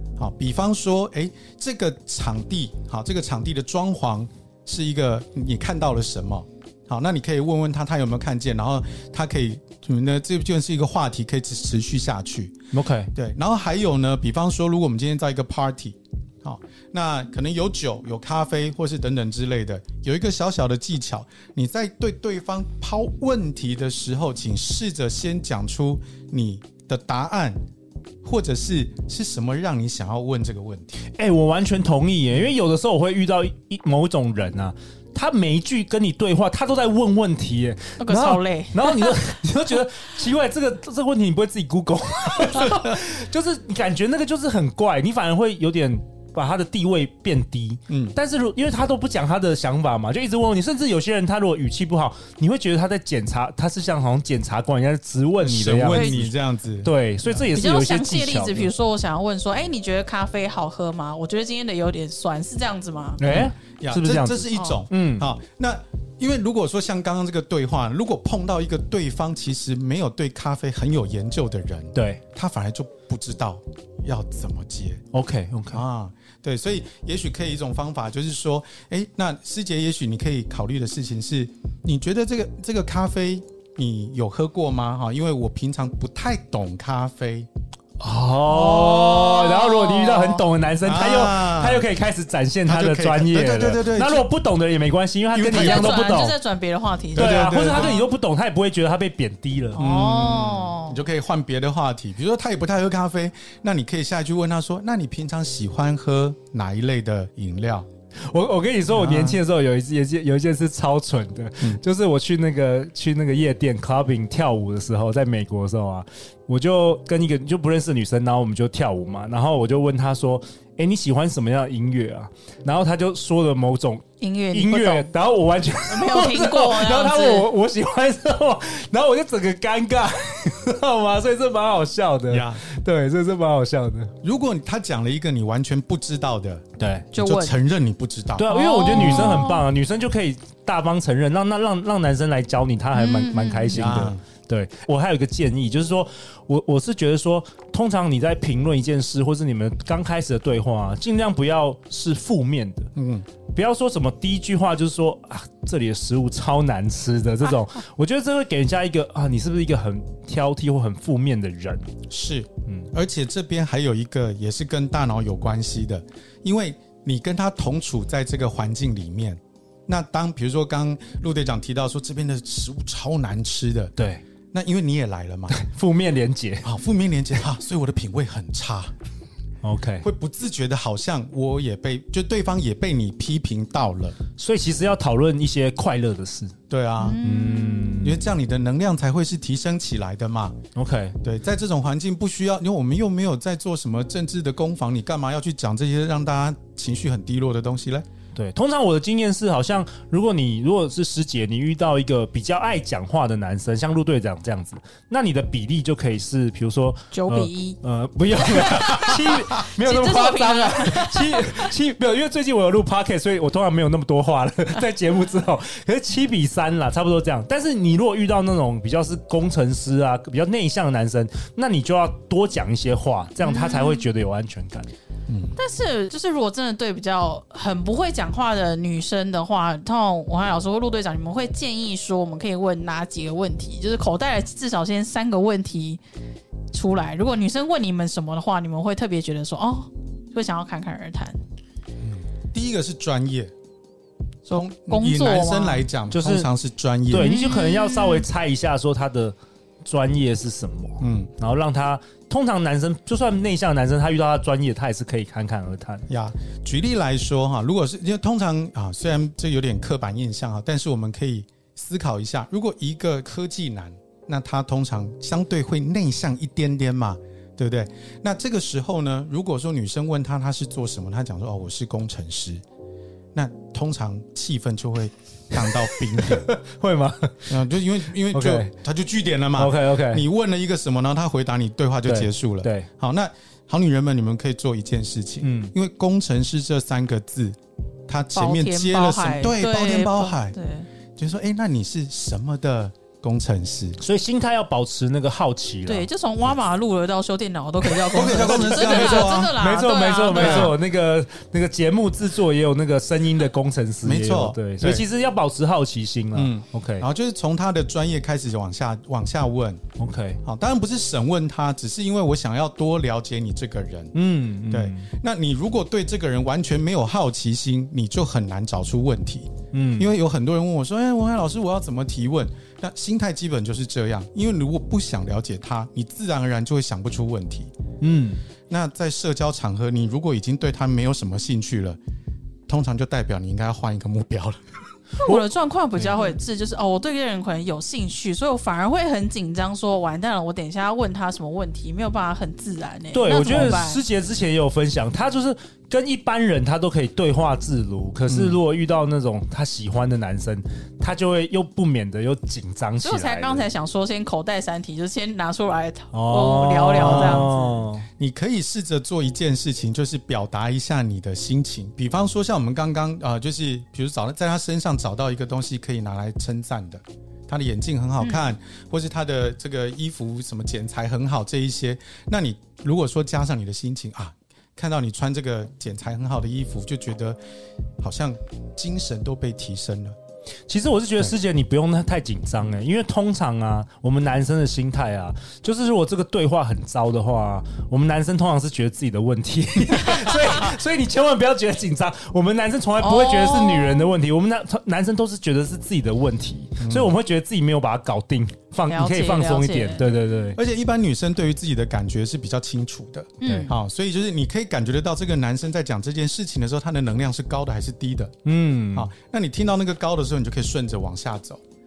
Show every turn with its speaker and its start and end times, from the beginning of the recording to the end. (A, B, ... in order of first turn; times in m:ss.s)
0:00.2-0:12.6 A
0:12.7-0:13.1 B
0:13.2-0:27.6 A
0:28.2-0:31.0 A
0:31.1-0:56.3 B
0:38.0-0:39.1 C
0:47.9-0:48.2 A
0:55.4-0:57.5 A
0:55.9-0:56.3 C
0:56.8-0:58.7 B
0:57.5-1:03.2 C
1:03.2-1:05.3 B
1:03.2-1:15.0 A
1:04.5-1:04.8 C
1:11.9-1:12.2 B
1:15.1-1:15.8 B
1:15.7-1:27.5 A
1:28.0-1:36.4 B
1:28.5-1:30.4 C
1:30.8-1:31.9 A
1:32.7-1:34.3 A
1:35.3-1:36.0 A
1:35.4-1:38.1 C
1:37.1-1:38.0 A
1:37.2-1:39.8 B
1:39.8-1:41.0 C
1:39.8-1:47.9 A
1:48.3-2:14.1 B
1:48.9-1:49.4 A
2:04.2-2:05.1 C
2:05.9-2:07.5 C
2:12.3-2:12.6 A
2:14.2-2:19.5 A
2:16.8-2:17.1 B
2:17.1-2:17.5 C
2:18.4-2:32.9 B
2:18.5-2:19.7 C
2:22.9-2:23.9 C
2:23.7-2:24.2 A
2:33.0-2:33.3 A
2:33.5-2:41.9 B
2:42.1-2:53.9 A
2:54.0-2:54.2 B
2:54.5-2:55.6 A
2:55.5-2:56.7 B
2:56.6-2:58.9 A
2:59.6-3:00.0 B
3:00.0-3:04.2 A
3:04.4-3:06.6 B
3:06.7-3:07.2 A
3:07.0-3:08.0 C
3:07.2-3:08.2 B
3:08.0-3:10.6 A
3:10.8-3:11.2 B
3:11.2-3:18.0 A
3:18.4-3:44.9 B
3:27.1-3:27.8 C
3:28.4-3:31.7 C
3:43.4-3:44.0 C
3:45.3-3:45.6 A
3:45.6-3:56.0 C
3:56.7-4:01.4 C
4:02.0-4:03.5 A
4:04.5-4:07.4 A
4:04.5-4:05.8 C
4:06.1-4:06.5 B
4:07.1-4:16.1 B
4:07.2-4:08.3 C
4:11.0-4:11.3 A
4:16.1-4:32.6 A
4:33.3-4:36.5 A
4:35.6-4:37.5 B
4:37.5-4:47.6 A
4:38.3-4:38.7 B
4:39.6-4:40.2 B
4:42.0-4:42.9 B
4:45.4-4:45.7 B
4:48.1-4:50.6 A
4:48.4-4:50.9 C
4:51.2-4:54.0 A
4:54.0-4:56.1 B
4:55.9-5:00.8 C
4:58.1-4:59.6 A
4:58.2-5:07.1 B
5:00.3-5:00.7 A
5:04.0-5:05.0 A
5:06.3-5:09.8 A
5:10.0-5:10.4 B
5:10.4-5:14.1 A
5:14.1-5:15.1 B
5:14.7-5:27.7 A
5:19.7-5:20.1 B
5:28.0-5:28.4 B
5:28.7-5:32.0 A
5:32.7-5:34.6 A
5:35.2-5:44.0 C
5:36.0-5:36.3 B
5:43.1-5:53.7 B
5:48.3-5:48.6 A
5:53.0-5:57.8 C
5:56.1-5:58.1 B
5:57.0-5:57.5 A
5:58.2-6:17.4 A
6:18.0-6:20.2 A
6:20.7-6:40.6 B
6:30.2-6:30.5 C
6:33.0-6:34.1 C
6:36.8-6:37.1 A
6:38.9-6:40.0 C
6:40.6-6:48.3 A
6:43.4-6:43.7 C
6:43.4-6:43.7 B
6:48.4-6:49.1 B
6:48.9-6:51.6 A